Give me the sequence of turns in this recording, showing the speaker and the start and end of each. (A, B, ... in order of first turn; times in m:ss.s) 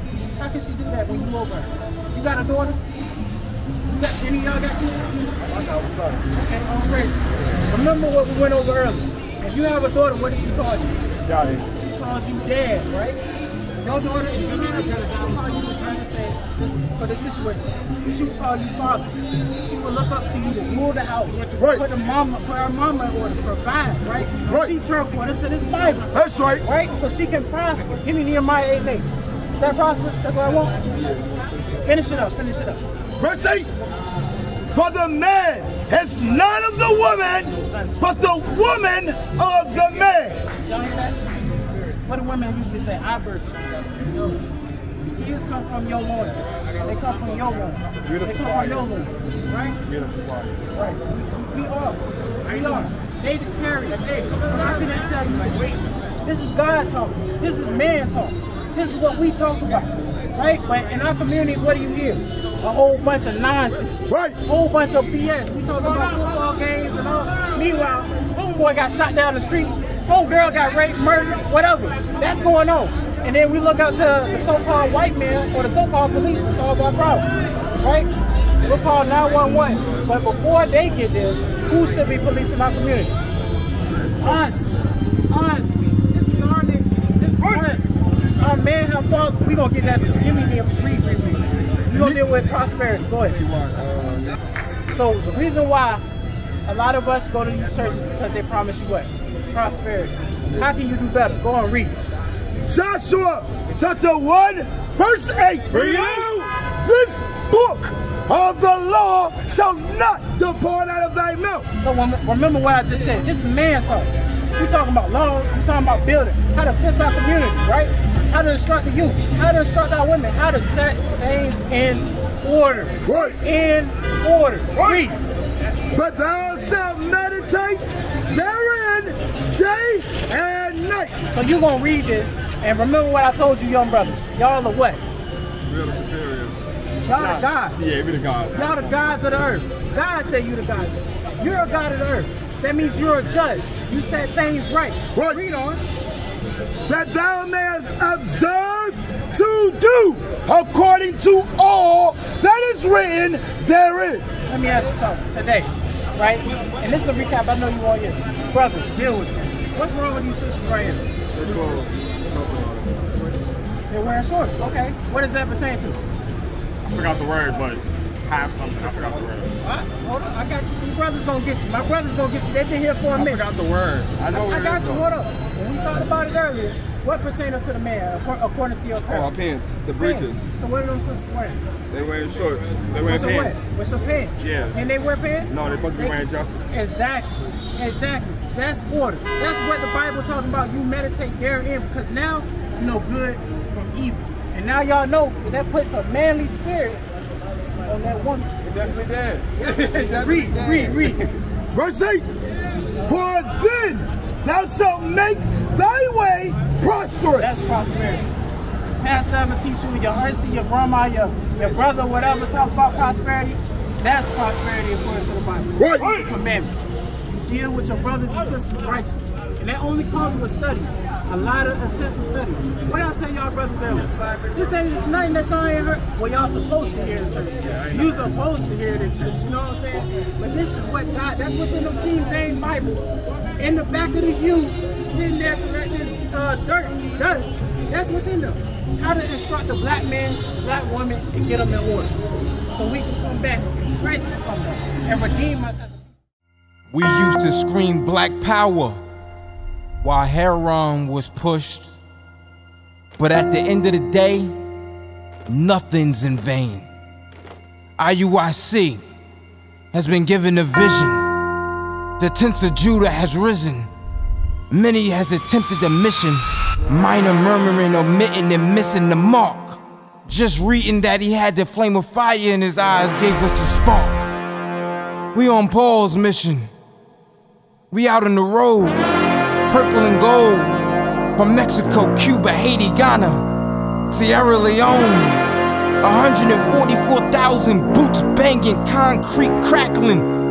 0:00.4-0:02.8 A
0:03.9-0:05.3 A
0:06.3-0:11.0 A
0:11.2-0:11.6 B
0:11.7-0:13.2 A
0:13.8-0:26.1 A
0:21.6-0:21.8 C
0:26.1-0:26.6 C
0:26.6-0:30.8 A
0:31.8-0:32.8 A
0:33.2-0:33.7 C
0:34.7-0:40.4 C
0:40.6-0:44.4 A
0:45.0-0:49.8 A
0:48.0-0:48.4 B
0:49.8-0:50.6 B
0:50.7-0:55.7 A
0:56.2-1:17.2 A
1:04.1-1:04.4 C
1:17.8-1:18.1 A
1:18.6-1:23.3 A
1:24.2-1:24.8 A
1:25.3-1:33.4 A
1:31.9-1:32.2 C
1:33.8-1:34.1 C
1:34.9-1:36.0 A
1:36.6-1:42.0 A
1:42.7-1:51.7 C
1:45.9-1:46.3 B
1:51.8-2:05.2 A
2:03.0-2:03.4 C
2:05.9-2:11.2 C
2:11.3-2:15.0 A
2:15.7-2:18.8 B
2:17.0-2:17.9 A
2:18.5-2:25.8 A
2:25.1-2:25.4 C
2:26.9-2:34.3 C
2:34.4-2:41.1 A
2:41.3-2:43.1 B
2:43.9-2:46.0 A
2:46.8-2:49.5 B
2:49.6-2:53.4 A
2:53.2-2:55.0 B
2:54.3-2:59.3 A
2:59.1-3:00.4 B
2:59.9-3:01.6 A
3:01.9-3:03.6 B
3:03.0-3:17.1 A
3:04.4-3:04.8 B
3:05.5-3:06.7 B
3:17.8-3:18.9 A
3:18.9-3:19.5 B
3:19.6-3:21.3 A
3:21.7-3:22.3 C
3:23.0-3:27.6 C
3:27.4-3:28.3 A
3:29.0-4:02.1 A
3:35.8-3:36.2 C
4:02.7-4:06.1 A
4:06.9-4:09.0 D
4:10.0-4:11.9 D
4:13.2-4:14.5 D
4:15.5-4:16.9 D
4:18.0-4:19.0 D
4:19.9-4:21.2 D
4:22.2-4:23.9 D
4:24.7-4:34.3 D
4:35.3-4:36.7 D
4:37.9-4:39.0 D
4:39.7-4:40.8 D
4:41.4-4:43.4 D
4:44.1-4:45.4 D
4:46.0-4:50.3 D